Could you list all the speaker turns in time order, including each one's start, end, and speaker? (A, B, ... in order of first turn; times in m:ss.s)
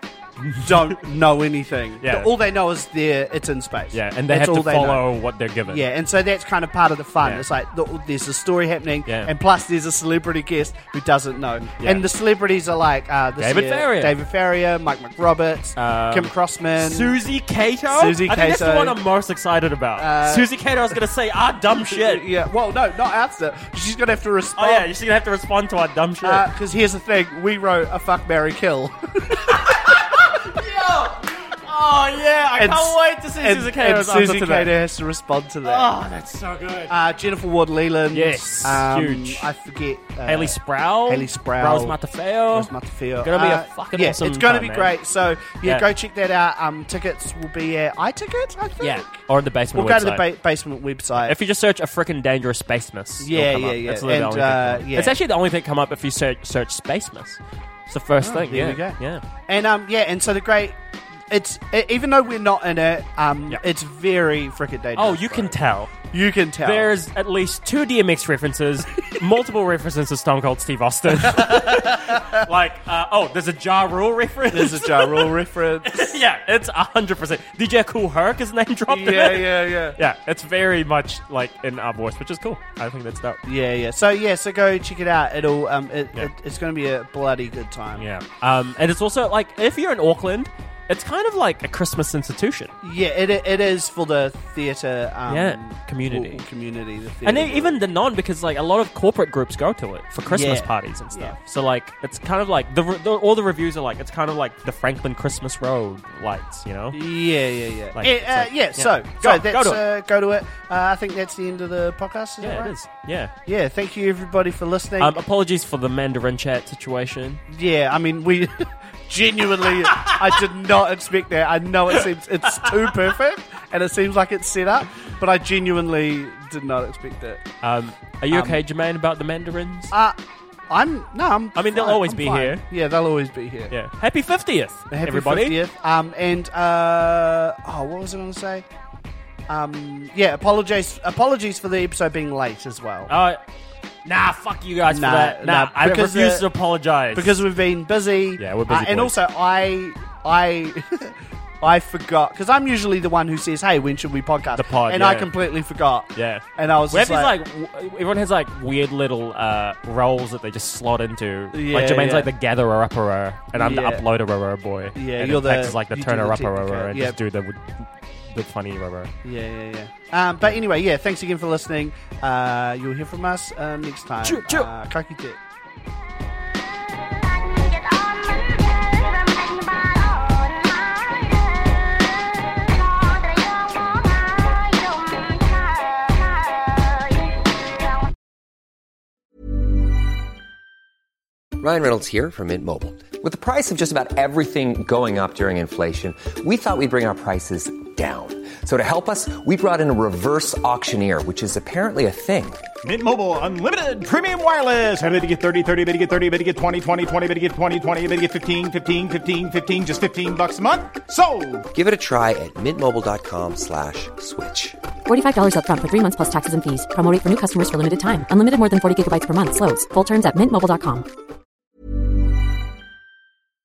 0:00.4-0:01.0 A
0:00.6-0:05.1 B
0:02.0-0:02.3 A
0:03.9-0:05.8 A
0:05.7-0:17.2 B
0:09.1-0:09.3 A
0:11.8-0:12.0 A
0:13.4-0:14.2 A
0:15.8-0:22.2 A
0:17.9-0:19.0 B
0:20.0-0:20.5 B
0:21.7-0:24.9 B
0:24.6-0:26.4 A
0:26.2-0:30.2 B
0:29.6-0:34.7 A
0:32.6-0:35.9 B
0:35.6-0:36.9 A
0:36.9-0:42.0 B
0:38.1-0:39.5 A
0:40.2-0:42.7 A
0:42.5-0:51.4 B
0:43.2-0:44.9 A
0:45.6-0:45.9 A
0:48.8-0:50.2 A
0:51.2-0:59.2 A
0:53.2-0:55.2 B
0:58.2-1:06.9 B
1:05.0-1:05.9 A
1:06.6-1:15.3 A
1:11.3-1:12.2 B
1:14.5-1:16.2 B
1:15.8-1:23.4 A
1:18.9-1:20.0 B
1:23.4-1:28.1 B
1:28.0-1:32.7 A
1:32.8-1:37.8 B
1:35.3-1:36.4 A
1:37.2-1:47.0 A
1:40.2-1:41.4 B
1:46.9-1:52.8 B
1:48.0-1:49.8 A
1:52.4-1:53.3 A
1:53.4-1:55.2 B
1:55.0-1:57.4 A
1:57.5-2:07.4 B
2:07.6-2:09.9 A
2:08.3-2:08.6 B
2:09.9-2:10.2 B
2:10.7-2:13.7 B
2:11.6-2:12.6 A
2:13.7-2:15.6 A
2:14.9-2:18.7 B
2:19.5-2:23.1 B
2:23.1-2:23.4 A
2:24.0-2:27.4 A
2:24.9-2:26.5 B
2:27.1-2:37.4 B
2:28.4-2:29.2 A
2:34.5-2:35.3 A
2:36.2-2:49.1 A
2:41.5-2:42.3 B
2:43.5-2:44.0 B
2:45.0-2:47.2 B
2:49.2-2:55.4 B
2:54.2-2:54.7 A
3:11.6-3:22.6 C
3:22.8-3:31.6 D
3:31.7-3:34.8 C
3:35.1-3:41.1 E